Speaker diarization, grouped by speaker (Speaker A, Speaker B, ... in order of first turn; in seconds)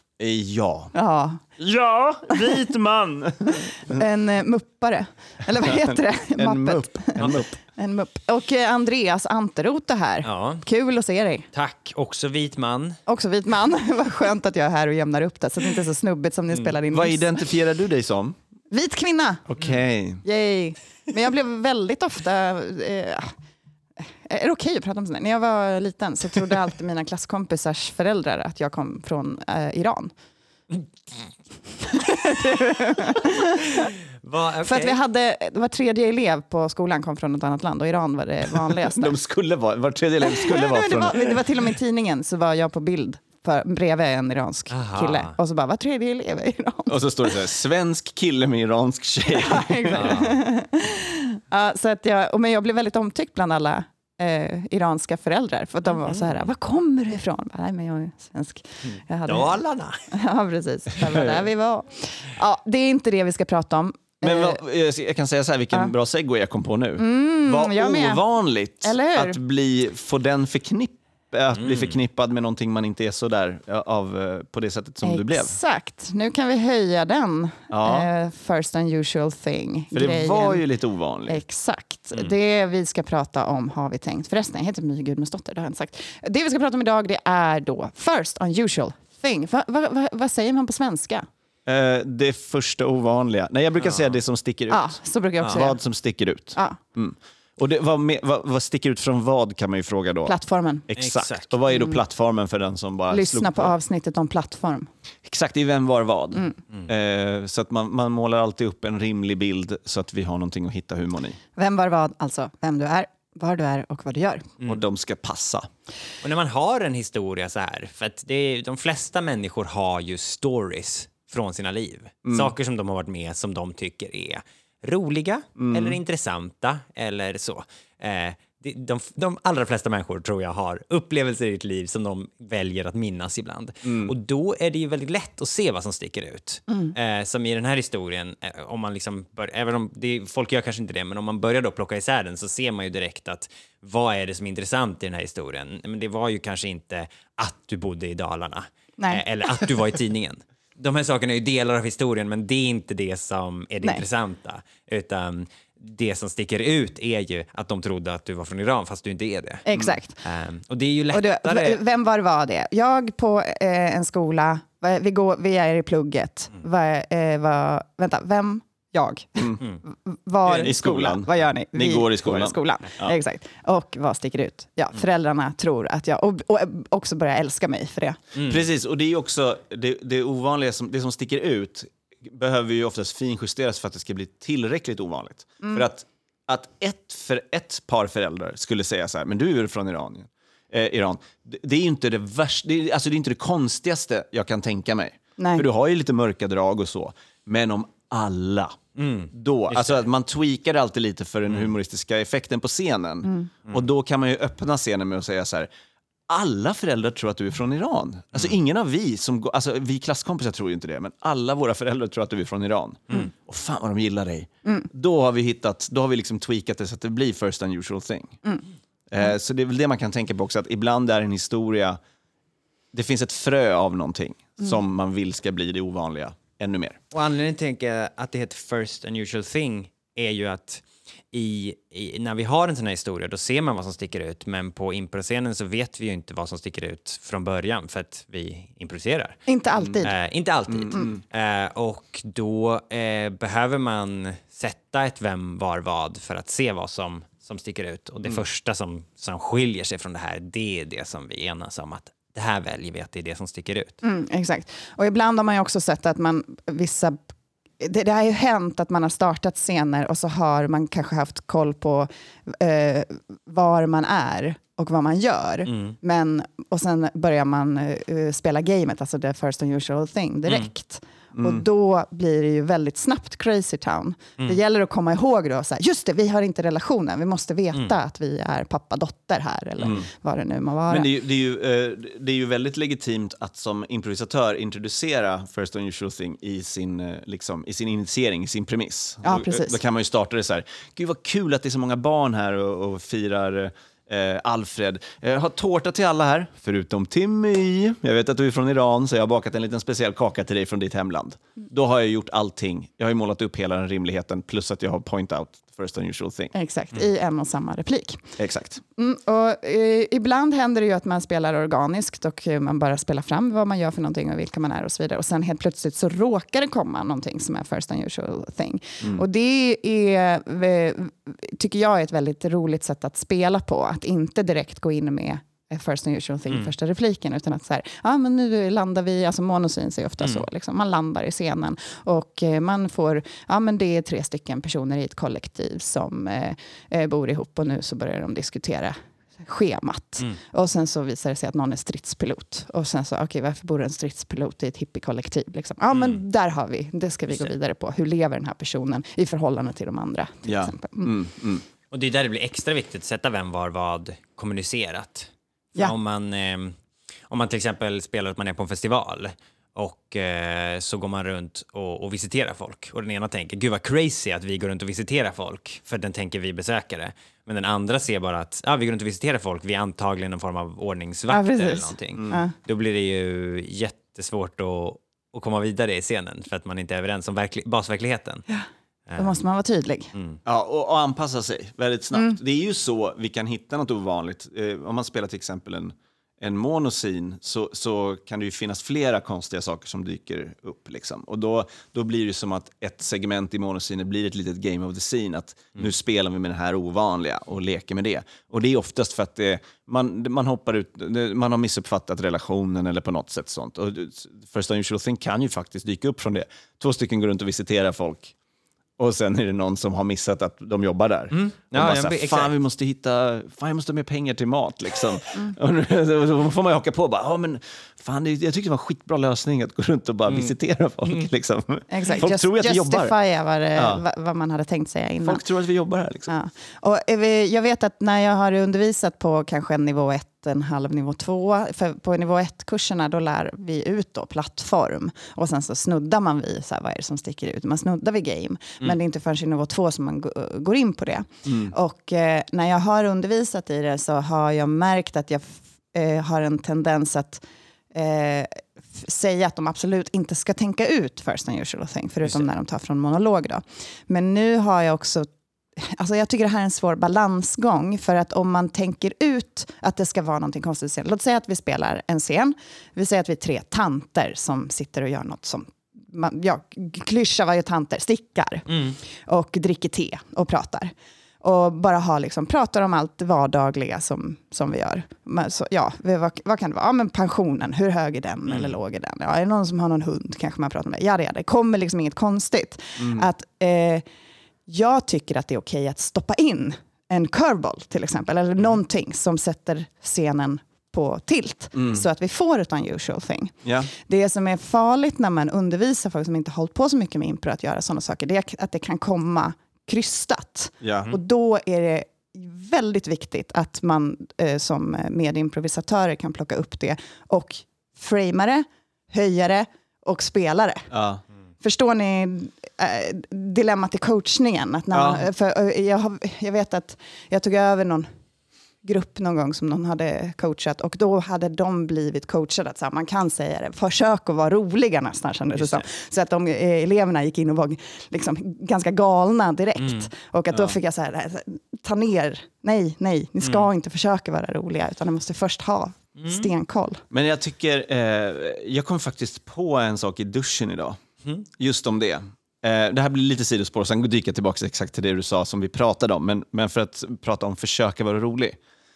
Speaker A: 0.2-0.9, 1.6-4.0, 5.6-7.5, 16.9-18.4, 19.5-20.2, 38.7-41.4, 46.9-50.2, 64.2-75.5, 77.7-78.1, 79.9-81.4, 91.7-100.4, 100.9-103.7, 105.2-111.4, 114.6-115.7, 122.2-122.5, 125.6-126.0, 133.8-134.1, 170.6-173.1, 178.4-205.7, 206.3-218.4, 219.1-222.0, 222.9-227.0, 240.7-241.2, 271.3-271.6, 279.8-280.1, 280.9-306.5, 308.4-308.8, 350.4-351.6, 380.4-408.3, 409.0-423.1, 423.7-424.0, 425.2-426.3, 441.4-441.7, 483.0-483.3, 491.7-492.0, 493.6-493.9, 500.8-501.2, 510.9-511.2, 514.9-515.2, 530.5-530.8, 537.1-541.0, 541.6-548.6
Speaker B: 0.9-1.4, 3.8-11.4, 13.1-17.3, 18.7-19.4, 20.2-23.3, 24.2-30.1, 31.8-33.9, 34.6-39.1, 40.2-47.3, 49.3-64.6, 67.0-68.2, 68.7-69.4, 75.0-80.7, 81.2-91.2, 94.7-95.8, 100.2-100.9, 101.7-102.0, 103.1-104.9, 106.3-106.6, 111.5-114.5, 136.7-136.9, 149.0-149.2, 159.7-160.2, 161.1-178.2, 185.6-185.9, 195.4-195.7, 203.2-203.5, 214.6-214.9, 239.5-240.1, 254.0-257.2, 257.8-281.1, 289.2-289.8, 306.5-308.3, 308.9-351.1, 371.3-372.5, 379.2-380.1, 421.9-425.4, 426.3-455.3, 455.8-484.0, 484.7-510.9, 511.6-518.1, 518.8-537.0
Speaker C: 10.2-10.6, 11.5-13.0, 34.2-35.0, 44.7-45.3, 49.9-50.4, 58.9-60.1, 71.5-72.0, 93.8-94.1, 101.0-101.5, 116.2-159.7, 160.2-161.8, 178.3-178.6, 198.9-200.0, 227.1-239.5, 240.0-254.0, 265.6-265.9, 330.2-330.4, 345.9-346.2, 351.9-356.7, 357.3-378.4, 379.1-379.4, 380.1-380.4, 411.3-412.5, 468.7-469.0, 478.5-478.7, 525.5-525.9, 529.8-530.1, 533.4-533.7, 536.2-536.5